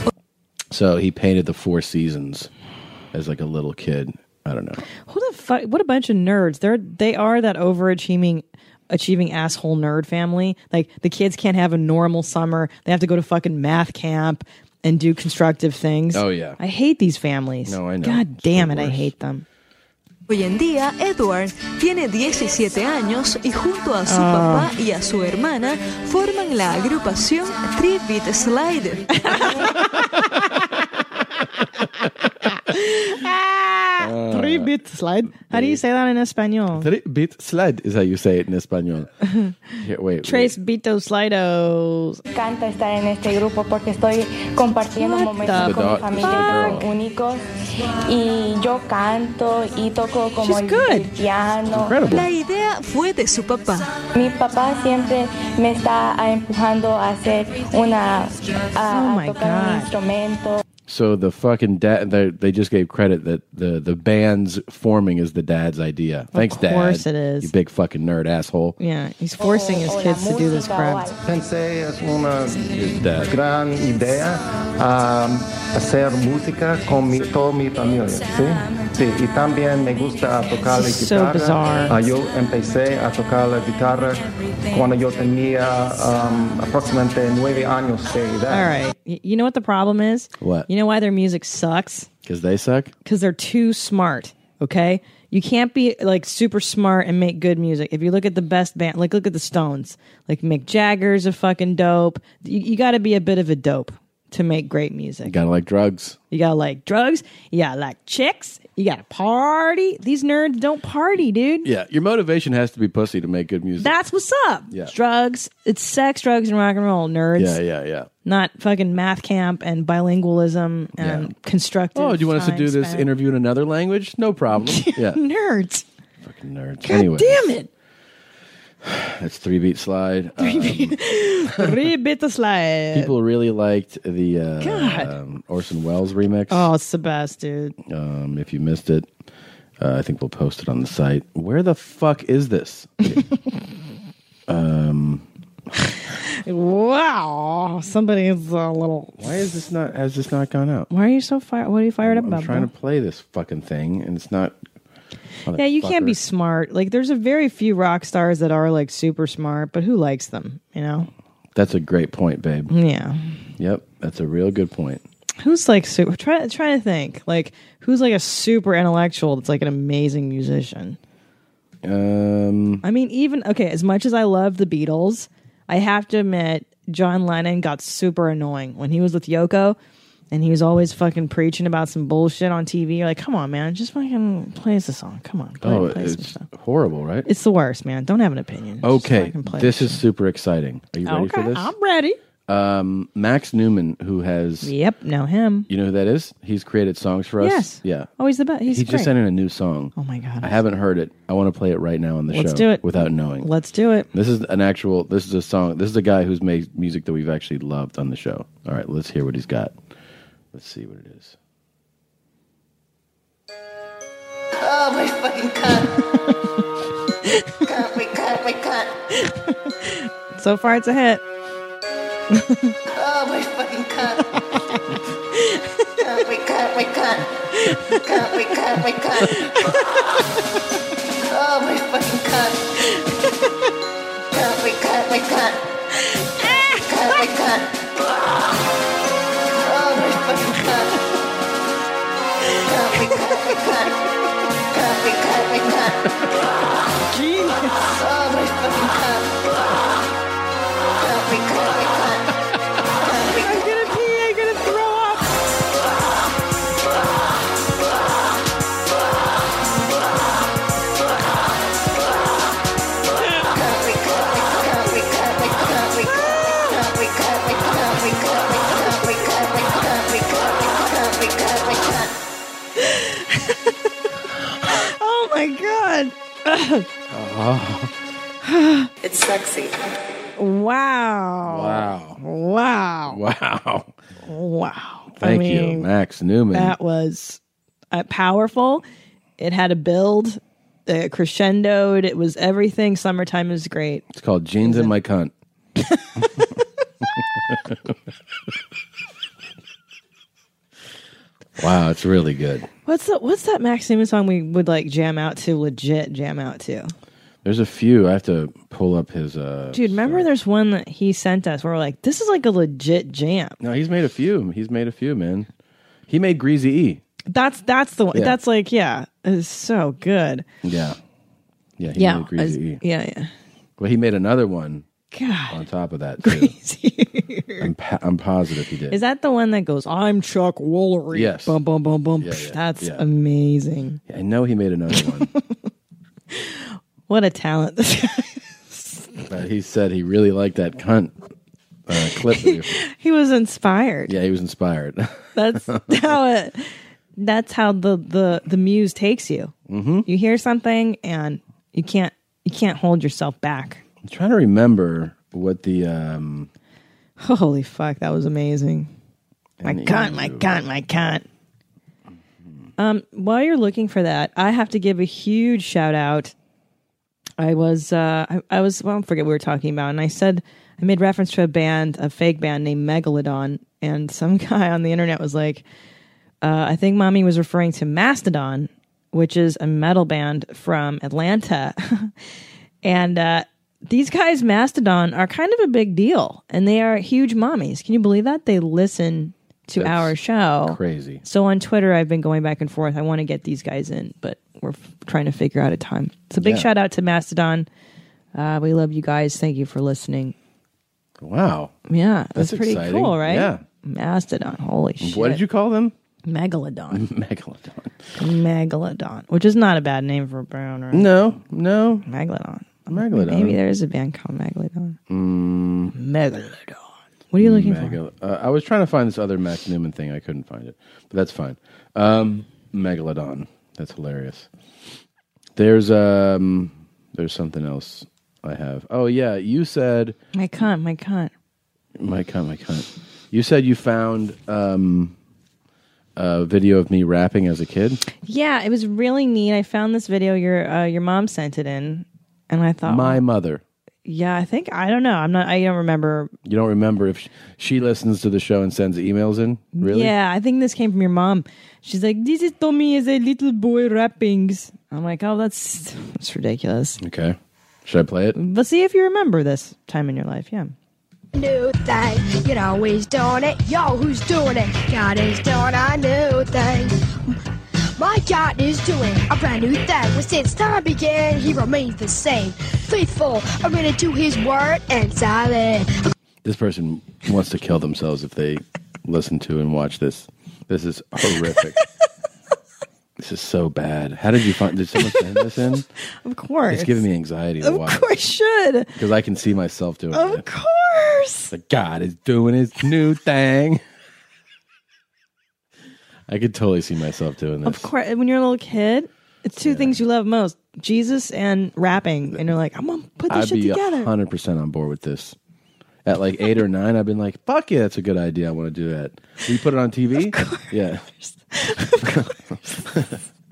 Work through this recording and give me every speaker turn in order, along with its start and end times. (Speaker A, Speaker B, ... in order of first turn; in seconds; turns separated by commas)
Speaker A: 0.7-2.5, Speaker A: 3.1-4.8, Speaker B: 5.0-19.4, Speaker A: 16.1-16.6, Speaker A: 17.6-19.1, Speaker C: 20.3-29.1, Speaker B: 24.1-24.7, Speaker B: 29.1-30.7, Speaker B: 32.5-36.9, Speaker A: 34.0-34.7, Speaker A: 35.5-35.8, Speaker A: 36.7-39.1, Speaker B: 39.2-39.6, Speaker A: 39.8-40.5, Speaker B: 40.2-42.2, Speaker D: 42.3-47.4, Speaker B: 45.0-46.8, Speaker A: 45.5-46.9, Speaker D: 48.0-52.0, Speaker B: 50.4-51.1, Speaker A: 51.7-52.3, Speaker C: 52.0-53.9, Speaker D: 54.1-60.6, Speaker B: 58.9-59.9, Speaker A: 60.9-68.8, Speaker B: 66.3-67.5, Speaker B: 68.8-71.1, Speaker D: 69.4-71.2, Speaker E: 71.2-88.7, Speaker A: 72.7-73.3, Speaker B: 80.7-82.0, Speaker B: 88.5-92.1, Speaker A: 90.4-90.7, Speaker A: 92.2-92.9, Speaker B: 93.0-105.3, Speaker A: 105.2-106.2, Speaker B: 106.3-111.7, Speaker A: 111.6-113.9, Speaker B: 113.8-117.6, Speaker A: 117.4-118.1, Speaker B: 118.2-123.1, Speaker A: 121.0-121.3, Speaker A: 121.9-125.2, Speaker B: 124.6-125.8, Speaker A: 126.2-127.5, Speaker B: 126.8-127.7, Speaker A: 128.8-131.9, Speaker B: 130.4-133.1, Speaker A: 132.9-136.7, Speaker B: 134.6-135.1, Speaker B: 136.5-137.8, Speaker A: 137.8-139.1, Speaker A: 139.8-143.2, Speaker A: 144.5-145.2, Speaker B: 146.1-149.2, Speaker A: 149.2-150.9, Speaker B: 150.9-152.7, Speaker A: 152.0-154.6, Speaker A: 155.4-156.2, Speaker B: 155.5-161.1, Speaker A: 161.5-162.7, Speaker B: 162.7-163.3, Speaker A: 163.6-165.0, Speaker B: 165.4-171.0, Speaker A: 171.8-172.8, Speaker B: 172.8-179.8, Speaker B: 180.3-186.4, Speaker A: 185.6-187.3, Speaker B: 187.2-190.0, Speaker A: 188.8-191.7, Speaker B: 191.0-192.2, Speaker A: 192.5-194.7, Speaker B: 194.6-195.7, Speaker A: 195.7-198.1, Speaker B: 197.4-199.1, Speaker A: 198.7-203.5, Speaker B: 199.9-200.5, Speaker B: 202.3-204.1, Speaker A: 204.1-209.8, Speaker A: 210.5-211.4, Speaker F: 214.6-216.0, Speaker F: 217.6-218.9, Speaker B: 219.2-221.2, Speaker B: 222.3-222.8, Speaker F: 222.9-224.4, Speaker B: 224.2-224.8, Speaker B: 225.3-225.9, Speaker F: 226.0-227.3, Speaker B: 227.6-228.0, Speaker F: 227.9-229.5, Speaker B: 229.2-229.8, Speaker F: 231.3-232.6, Speaker F: 234.3-235.6, Speaker B: 236.4-236.8, Speaker F: 236.4-237.7, Speaker F: 239.6-241.0, Speaker F: 242.6-244.0, Speaker F: 244.7-246.1, Speaker B: 247.1-248.0, Speaker F: 247.9-249.3, Speaker F: 251.0-252.2, Speaker F: 253.0-253.5, Speaker B: 253.3-255.3, Speaker F: 263.5-272.1, Speaker B: 266.1-266.8, Speaker B: 272.8-273.8, Speaker B: 274.6-276.9, Speaker A: 277.1-277.9, Speaker B: 278.4-278.9, Speaker F: 279.0-279.7, Speaker B: 280.4-283.2, Speaker A: 281.4-282.2, Speaker A: 283.1-283.9, Speaker B: 284.2-285.9, Speaker A: 285.2-286.8, Speaker B: 286.5-287.4, Speaker B: 287.9-288.8, Speaker B: 289.4-294.1, Speaker A: 294.1-295.3, Speaker B: 294.6-294.9, Speaker B: 295.9-296.5, Speaker A: 297.5-297.9, Speaker A: 301.6-302.7, Speaker B: 302.8-306.9, Speaker A: 307.4-310.2, Speaker B: 309.7-313.6, Speaker A: 313.6-315.5, Speaker A: 316.1-317.0, Speaker B: 317.3-320.4, Speaker A: 320.6-321.0, Speaker A: 321.8-322.8, Speaker B: 321.9-323.3, Speaker A: 323.8-324.9, Speaker B: 325.1-325.6, Speaker A: 325.5-326.5, Speaker B: 326.2-327.7, Speaker A: 327.6-329.0, Speaker B: 328.9-334.0, Speaker A: 331.1-331.6, Speaker A: 332.2-333.0, Speaker A: 334.1-335.3, Speaker B: 336.3-339.1, Speaker A: 339.3-341.2, Speaker A: 341.9-342.8, Speaker B: 342.4-344.1, Speaker A: 344.1-346.1, Speaker B: 345.3-349.5, Speaker A: 349.7-350.1, Speaker B: 350.1-353.8, Speaker A: 354.0-356.5, Speaker B: 357.2-358.9, Speaker A: 359.6-360.6, Speaker B: 359.6-361.2, Speaker B: 362.8-366.3, Speaker B: 367.4-375.6, Speaker B: 376.4-382.1, Speaker B: 382.8-397.7, Speaker A: 389.8-391.2, Speaker A: 396.4-396.7, Speaker B: 398.3-400.3, Speaker A: 401.2-401.7, Speaker B: 401.9-405.4, Speaker A: 402.4-403.6, Speaker A: 405.0-405.9, Speaker B: 406.2-407.1, Speaker A: 406.9-407.9, Speaker B: 408.2-411.1, Speaker A: 410.9-412.1, Speaker B: 412.1-415.0, Speaker A: 412.9-413.6, Speaker A: 415.1-415.9, Speaker B: 415.9-418.0, Speaker A: 417.4-424.5, Speaker A: 425.6-430.2, Speaker B: 430.3-431.3, Speaker A: 432.0-435.1, Speaker A: 436.1-438.0, Speaker B: 438.1-443.2, Speaker A: 442.8-443.6, Speaker B: 444.0-446.3, Speaker A: 446.4-450.1, Speaker B: 449.7-457.0, Speaker A: 457.0-458.4, Speaker B: 458.3-460.7, Speaker G: 461.3-467.4, Speaker G: 468.0-476.0, Speaker A: 476.4-481.8, Speaker B: 481.3-481.8, Speaker A: 483.2-485.9, Speaker B: 485.0-485.4, Speaker B: 486.2-487.1, Speaker A: 486.7-488.1, Speaker B: 487.6-488.9, Speaker A: 488.9-490.4, Speaker B: 490.1-491.5, Speaker A: 491.5-493.8, Speaker A: 496.3-497.9, Speaker B: 497.6-504.1, Speaker A: 499.6-500.0, Speaker A: 503.3-505.4, Speaker A: 506.0-511.1, Speaker B: 510.3-512.4, Speaker A: 512.0-512.3, Speaker A: 512.8-513.2